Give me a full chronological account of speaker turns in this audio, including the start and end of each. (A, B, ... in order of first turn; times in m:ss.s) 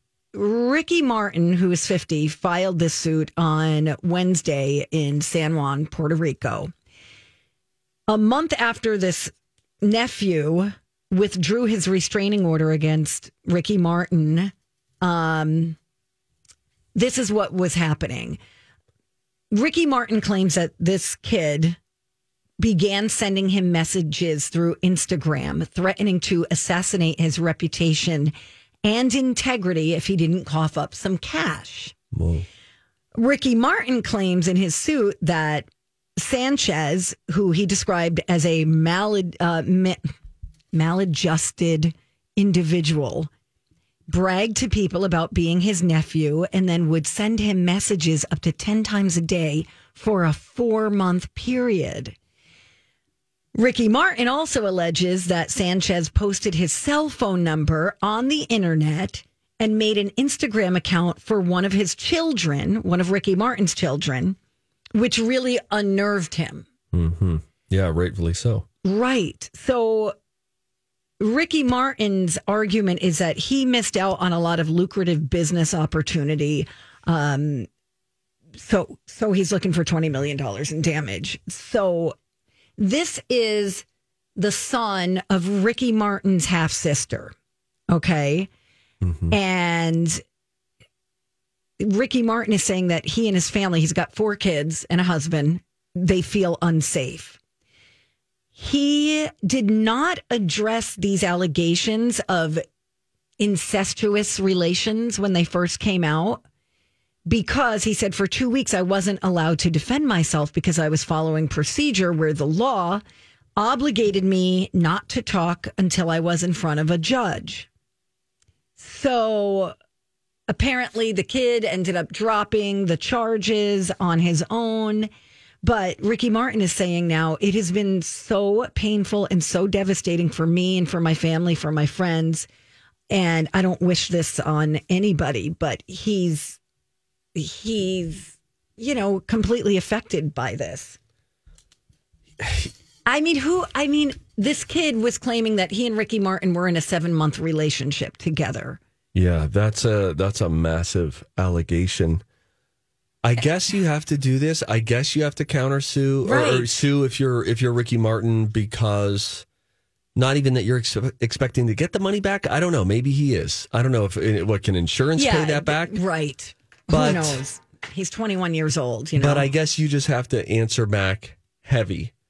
0:00.3-0:06.7 A
0:08.1-0:15.8 A
0:16.9-0:18.4 A
0:19.5-0:21.8 A
0:22.6-0:31.9 A
0:32.1-0:32.5 B
0:33.2-0:40.1 A
0:40.7-0:43.3 A
0:44.1-0:52.1 A
0:53.5-1:04.4 A
1:04.9-1:06.6 A
1:06.9-1:08.6 B
1:08.8-1:10.1 A
1:11.2-1:17.7 A
1:18.6-1:22.2 A
1:22.8-1:23.8 A
1:24.4-1:27.3 A
1:27.9-1:28.5 A
1:29.0-1:29.3 B
1:29.3-1:30.2 A
1:31.8-1:37.4 A
1:38.5-1:42.6 A
1:43.4-1:46.4 A
1:47.3-1:53.0 A
1:53.6-1:57.7 A
1:58.8-1:59.7 A
2:00.5-2:05.1 A
2:05.6-2:12.5 A
2:13.1-2:16.6 A
2:17.3-2:21.0 A
2:22.4-2:22.7 B
2:23.0-2:28.8 A
2:29.1-2:32.2 B
2:33.2-2:39.4 B
2:36.2-2:36.8 A
2:40.2-2:46.0 B
2:45.1-2:49.5 A
2:46.9-2:47.4 B
2:49.2-2:52.1 B